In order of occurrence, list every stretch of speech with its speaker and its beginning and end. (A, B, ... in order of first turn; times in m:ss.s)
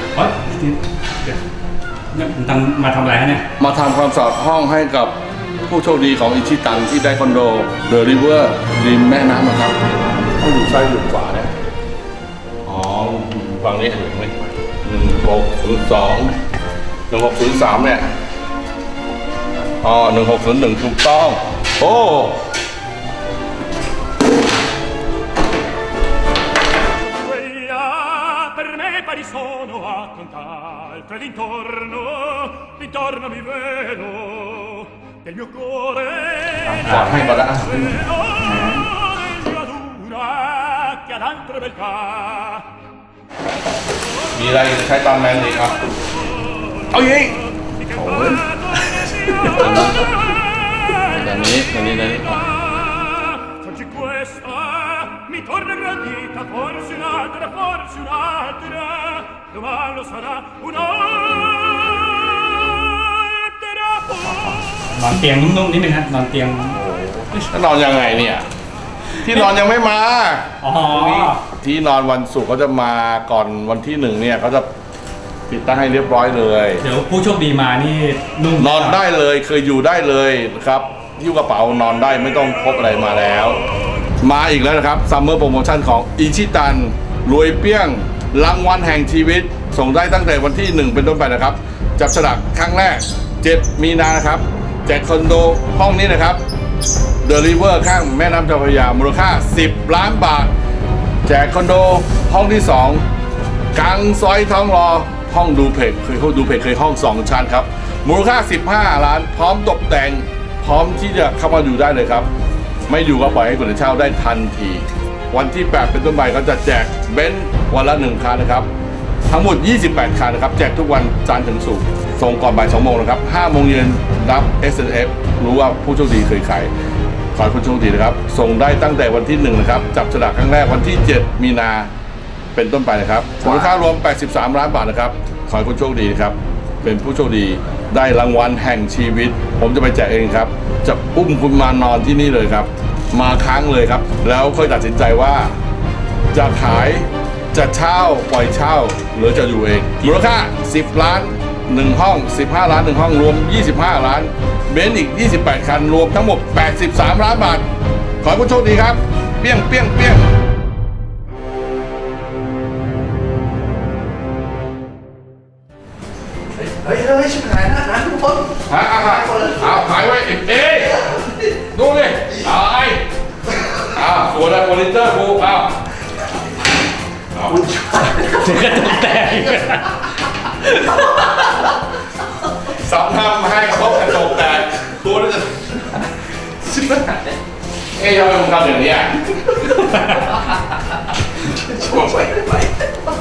0:00.1-0:01.4 A
0:02.1-0:03.4 A
0:03.6-0:09.8 B
0:10.3-0:11.5 B
0:12.6-0:16.3 B
0:17.1-0:18.1 B
0:19.8-0:22.4 B
0:27.2-0:36.2 C
0:36.6-0:38.8 B
0:36.8-0:37.2 A
0:39.7-0:42.5 C
0:44.3-0:45.9 B
0:46.9-0:47.4 B
0:48.0-0:48.4 B
0:49.6-0:49.9 B
0:51.1-0:52.4 B
0:53.7-1:02.3 C
1:02.8-1:03.4 C
1:04.2-1:06.8 A
1:06.8-1:08.5 B
1:09.2-1:10.5 B
1:10.6-1:11.4 A
1:11.2-1:14.7 B
1:15.5-1:16.8 B
1:16.8-1:19.0 A
1:18.6-1:23.6 B
1:24.2-1:36.4 B
1:37.2-1:40.5 B
1:41.2-1:43.0 B
1:43.7-1:52.3 B
1:52.9-1:58.7 B
1:59.3-2:06.7 B
2:07.3-2:11.9 B
2:12.5-2:25.5 B
2:26.3-2:37.6 B
2:38.2-2:40.3 B
2:46.6-2:48.5 D
2:48.6-2:53.0 B
2:53.8-2:55.8 B
2:57.4-2:57.6 B
2:57.6-2:58.1 D
2:58.1-3:00.0 A
3:02.7-3:05.6 B
3:07.9-3:09.6 B
3:11.7-3:12.6 D